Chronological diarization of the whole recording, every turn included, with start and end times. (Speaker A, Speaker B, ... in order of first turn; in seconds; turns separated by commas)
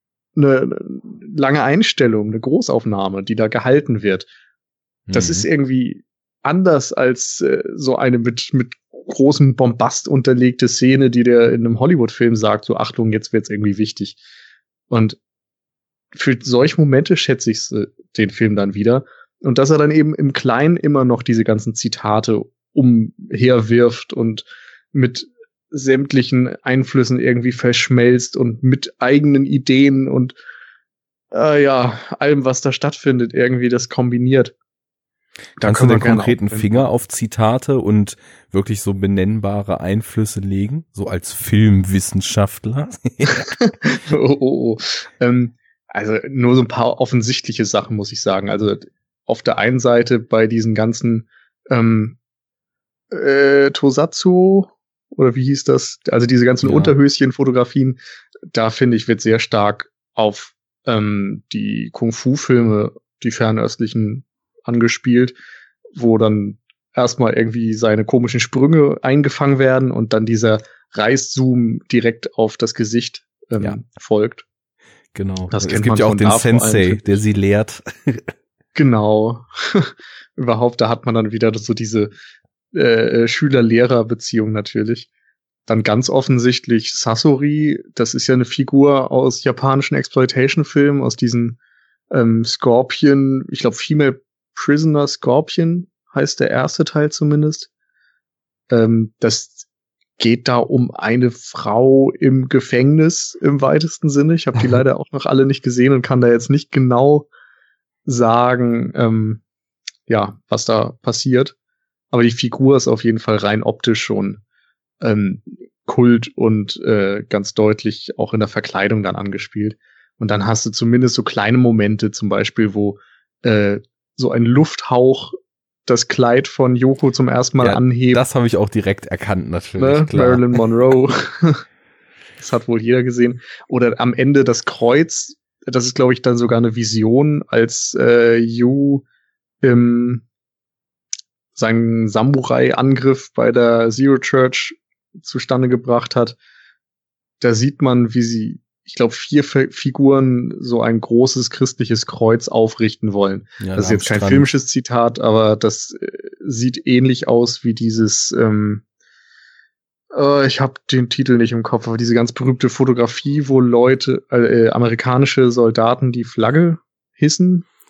Speaker A: 0.3-4.3, Speaker B: 5.1-5.5, Speaker A: 5.1-14.2, Speaker A: 14.9-15.2, Speaker A: 16.1-30.3, Speaker A: 31.3-34.5, Speaker A: 35.6-36.9, Speaker B: 35.6-43.5, Speaker A: 43.3-52.2, Speaker A: 53.1-58.0, Speaker B: 56.6-56.9, Speaker A: 58.5-65.3, Speaker A: 66.0-74.4, Speaker B: 75.1-78.3, Speaker A: 75.5-77.2, Speaker A: 78.7-82.1, Speaker A: 82.7-85.1, Speaker A: 85.7-91.6, Speaker A: 92.1-97.7, Speaker A: 98.7-99.6, Speaker A: 100.2-107.3, Speaker A: 108.0-109.4, Speaker A: 110.1-111.5, Speaker A: 112.1-114.4, Speaker A: 115.0-128.2, Speaker B: 127.6-130.4, Speaker A: 129.8-131.6, Speaker A: 132.4-139.0, Speaker A: 139.6-140.2, Speaker A: 141.6-146.4, Speaker A: 147.4-158.8, Speaker B: 153.6-154.5, Speaker A: 160.1-167.6